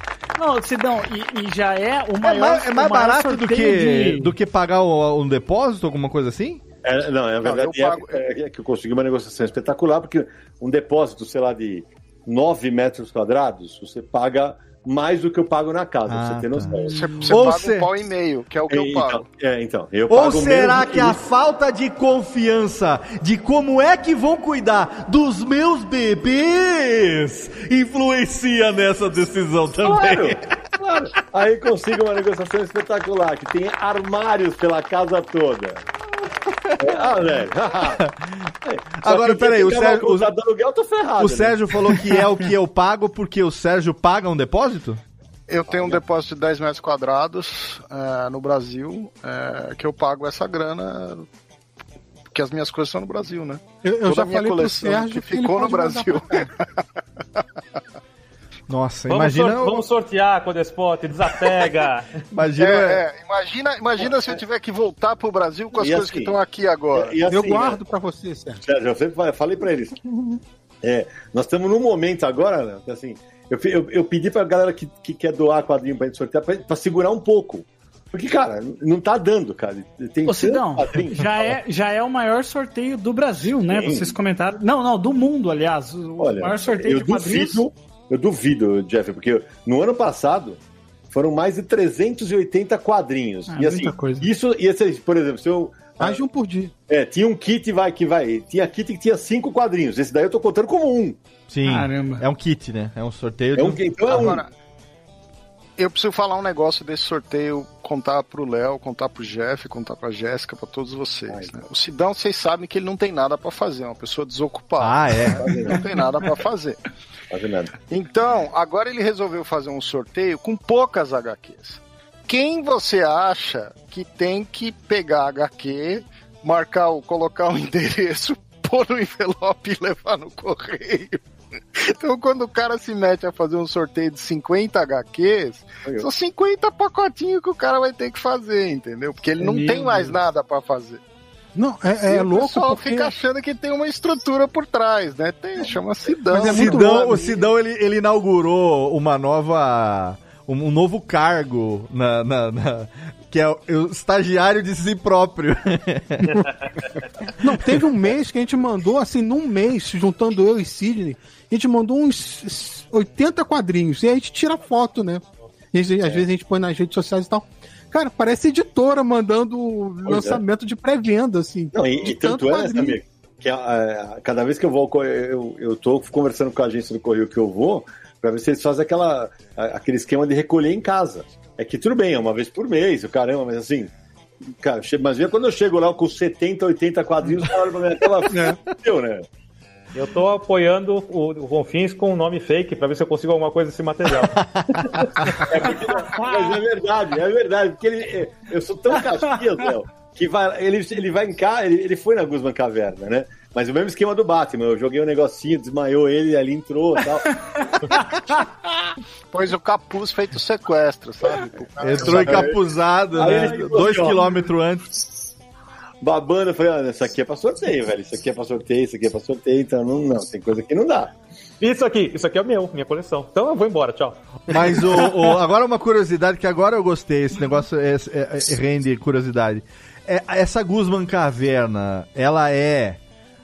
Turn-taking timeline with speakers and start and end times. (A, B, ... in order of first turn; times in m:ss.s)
0:00.4-0:04.3 A
0:02.2-0:06.6 B
0:06.8-0:17.1 C
0:07.4-0:08.2 D
0:16.1-0:16.7 B
0:16.8-0:17.2 A
0:16.8-0:19.3 D
0:17.3-0:17.9 B
0:18.7-0:21.2 C
0:20.1-0:30.4 B
0:29.8-0:35.8 C
0:36.5-0:36.8 B
0:36.8-0:38.0 C
0:38.0-0:38.3 B
0:38.6-0:42.0 C
0:39.0-0:40.3 B
0:41.2-0:45.0 B
0:45.5-0:51.3 D
0:45.7-0:46.0 C
0:52.3-0:56.8 D
0:53.8-0:56.4 E
0:58.7-0:59.8 B
0:59.1-1:02.1 F
1:02.3-1:03.0 B
1:02.6-1:07.2 D
1:05.7-1:06.4 C
1:06.9-1:07.8 C
1:07.3-1:08.6 E
1:08.6-1:10.1 C
1:10.8-1:21.5 C
1:20.3-1:27.6 A
1:23.7-1:24.1 C
1:26.2-1:30.6 C
1:31.1-1:36.2 C
1:33.5-1:34.3 A
1:36.0-1:36.7 E
1:36.9-1:41.2 C
1:41.5-1:43.8 B
1:41.6-1:42.2 A
1:43.6-1:44.4 C
1:44.1-1:44.5 D
1:45.8-1:56.8 D
1:54.8-1:55.5 B
1:55.4-1:55.8 C
1:57.3-1:57.7 C
1:57.9-2:11.2 D
2:11.7-2:21.0 D
2:19.4-2:20.2 A
2:21.6-2:23.1 E
2:22.1-2:27.4 D
2:26.3-2:27.2 E
2:26.4-2:36.4 B
2:36.4-2:36.6 F
2:37.4-2:53.0 E
2:50.0-2:50.4 C
2:51.7-3:03.9 C
3:04.5-3:09.2 C
3:08.3-3:08.6 E
3:09.9-3:14.4 F
3:14.4-3:15.3 B
3:14.9-3:15.4 F
3:15.3-3:27.4 C
3:16.1-3:16.5 A
3:29.3-3:32.6 D
3:31.8-3:34.8 B
3:32.0-3:32.6 C
3:33.2-3:34.2 C
3:36.0-3:41.2 C
3:41.6-3:44.8 F
3:44.5-3:53.0 B